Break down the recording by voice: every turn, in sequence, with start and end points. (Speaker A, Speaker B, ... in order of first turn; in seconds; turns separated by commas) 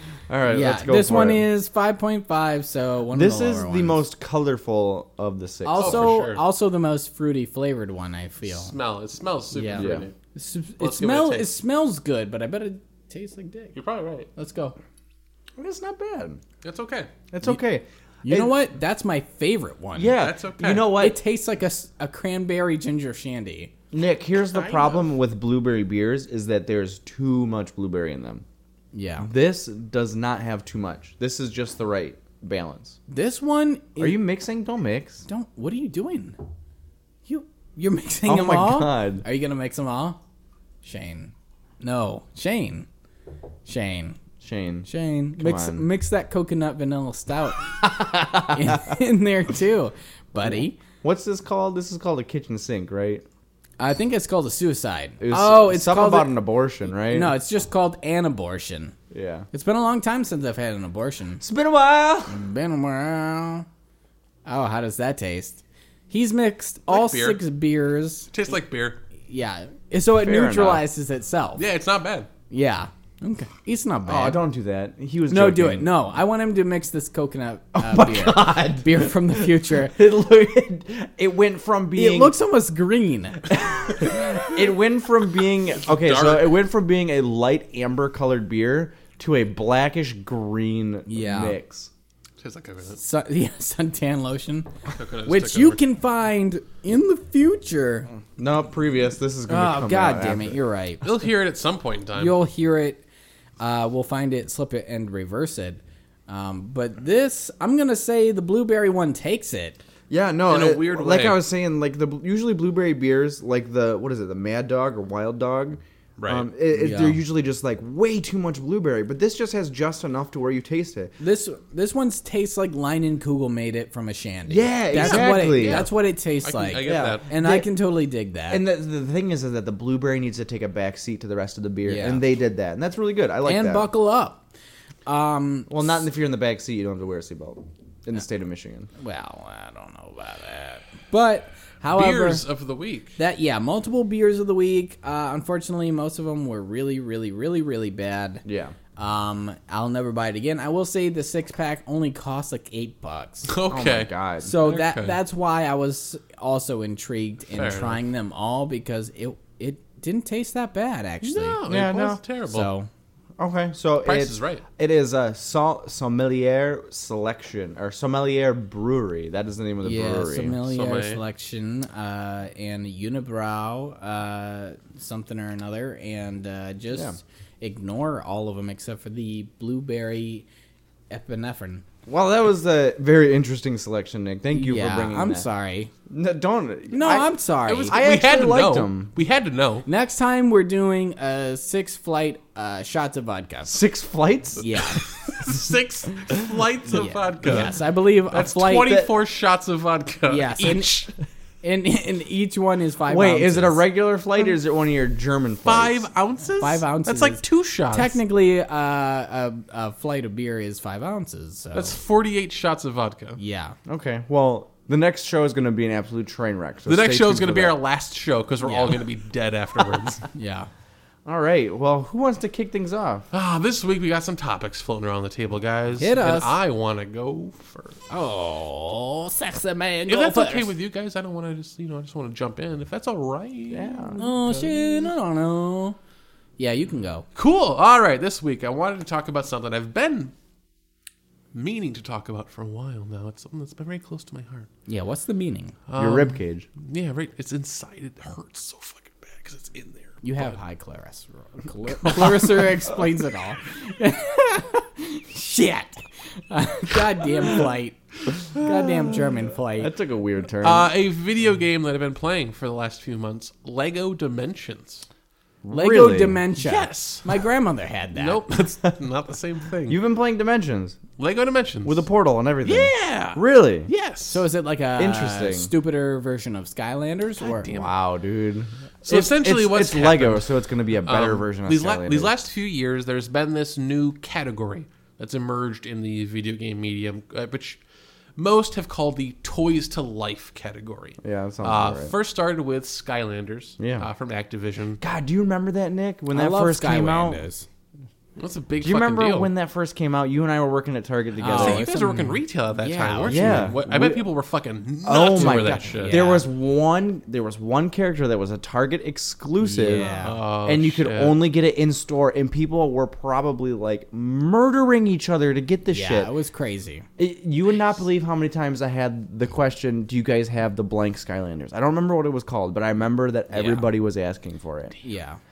Speaker A: 0.3-1.5, Speaker B: 0.5-4.0, Speaker A: 3.1-6.2, Speaker B: 5.7-8.7, Speaker C: 5.8-6.4, Speaker C: 8.4-10.1, Speaker B: 9.5-13.8, Speaker A: 9.8-10.1, Speaker C: 10.8-11.6, Speaker C: 13.8-14.3, Speaker B: 14.3-14.8, Speaker A: 15.6-16.4, Speaker C: 16.6-17.1, Speaker A: 17.3-18.6, Speaker B: 18.2-20.2, Speaker A: 20.0-21.2, Speaker C: 20.2-20.9, Speaker B: 20.9-23.7, Speaker A: 23.9-28.4, Speaker C: 24.4-25.1, Speaker B: 28.9-29.3, Speaker A: 29.2-33.0, Speaker B: 33.1-34.2, Speaker A: 34.0-35.2, Speaker B: 35.3-36.4, Speaker B: 37.3-40.2, Speaker A: 38.3-39.2, Speaker B: 40.8-42.9, Speaker B: 43.7-44.2, Speaker A: 44.4-45.9, Speaker B: 44.9-50.8, Speaker A: 47.8-48.8, Speaker A: 50.4-53.2, Speaker B: 53.8-56.3, Speaker A: 55.2-57.4, Speaker B: 57.1-59.0, Speaker A: 59.1-59.5, Speaker B: 59.5-61.4, Speaker A: 61.4-62.4, Speaker B: 62.3-63.7, Speaker B: 64.5-68.3, Speaker C: 66.9-67.4, Speaker C: 68.3-69.0, Speaker B: 69.3-71.7, Speaker A: 70.1-70.8, Speaker C: 71.6-72.3, Speaker B: 72.5-74.4, Speaker A: 74.1-75.9, Speaker B: 75.3-80.0, Speaker A: 77.8-82.4, Speaker B: 82.0-84.5, Speaker A: 83.5-91.9, Speaker C: 85.8-86.6, Speaker B: 91.1-91.6, Speaker C: 92.4-93.0, Speaker B: 93.0-94.7, Speaker C: 94.9-95.8, Speaker B: 95.2-98.1, Speaker A: 98.4-100.6, Speaker B: 99.5-101.1, Speaker C: 101.0-102.4, Speaker B: 102.2-103.0, Speaker B: 103.6-109.8, Speaker A: 110.1-121.1, Speaker C: 110.5-111.4, Speaker C: 116.2-116.5, Speaker B: 116.7-117.2, Speaker B: 121.2-128.6, Speaker A: 124.5-125.9, Speaker C: 124.9-127.3, Speaker A: 126.8-127.7, Speaker A: 128.5-133.9, Speaker B: 131.8-132.2, Speaker B: 133.4-134.4, Speaker B: 135.1-135.8, Speaker A: 135.7-138.9, Speaker B: 139.0-142.4, Speaker C: 141.9-143.2, Speaker B: 143.2-148.4, Speaker A: 148.4-148.8, Speaker B: 149.0-153.5, Speaker C: 153.5-155.2, Speaker A: 153.7-154.5, Speaker B: 154.4-161.6, Speaker C: 157.5-158.0, Speaker C: 161.2-162.7, Speaker A: 161.7-162.2, Speaker B: 162.5-162.9, Speaker A: 163.4-170.6, Speaker C: 164.0-164.7, Speaker B: 169.8-180.5, Speaker C: 170.7-171.2, Speaker B: 181.1-181.8, Speaker A: 182.1-185.5, Speaker B: 184.5-185.9, Speaker A: 186.1-187.3, Speaker B: 186.9-188.0, Speaker C: 187.7-189.9, Speaker A: 187.9-189.1, Speaker B: 189.9-193.7, Speaker A: 193.7-194.7, Speaker B: 194.6-195.1, Speaker C: 194.8-197.8, Speaker B: 196.9-199.1, Speaker C: 198.3-201.1, Speaker B: 200.3-201.1, Speaker B: 201.6-203.8, Speaker A: 203.1-206.1, Speaker C: 205.6-208.2, Speaker B: 206.6-212.0, Speaker C: 211.7-213.4, Speaker B: 213.4-213.8, Speaker A: 213.9-217.8, Speaker C: 216.9-220.2, Speaker B: 218.6-219.0, Speaker B: 220.3-220.7, Speaker A: 221.2-223.3, Speaker C: 223.3-228.0, Speaker B: 226.0-226.6, Speaker B: 228.1-230.7, Speaker C: 230.1-234.7, Speaker A: 233.7-234.2, Speaker B: 234.2-236.0, Speaker B: 236.6-237.3, Speaker C: 237.3-240.3, Speaker C: 241.5-244.7, Speaker B: 244.9-245.8, Speaker C: 245.9-250.6, Speaker A: 246.0-246.7, Speaker B: 250.2-259.9, Speaker C: 251.9-252.7, Speaker A: 258.6-260.9, Speaker C: 260.6-265.1, Speaker A: 265.6-266.4, Speaker B: 265.7-268.5, Speaker C: 266.6-267.4, Speaker C: 268.1-270.0, Speaker A: 269.9-271.0, Speaker C: 271.2-272.1, Speaker A: 271.8-273.9, Speaker C: 272.6-274.4, Speaker B: 274.3-277.7, Speaker A: 275.0-275.7, Speaker C: 277.4-277.9, Speaker A: 277.7-282.4, Speaker C: 279.0-287.8, Speaker C: 288.4-295.0, Speaker A: 291.2-292.1, Speaker A: 293.8-294.1, Speaker A: 295.0-297.4, Speaker B: 296.3-297.7, Speaker C: 298.4-299.5, Speaker A: 298.8-301.9, Speaker B: 301.4-303.8, Speaker C: 301.5-306.3, Speaker A: 303.3-304.2, Speaker A: 305.0-316.3, Speaker B: 305.3-306.5, Speaker B: 309.6-310.4, Speaker C: 310.0-311.4, Speaker B: 315.9-317.1, Speaker A: 317.2-325.0, Speaker B: 323.5-323.8, Speaker B: 325.0-325.4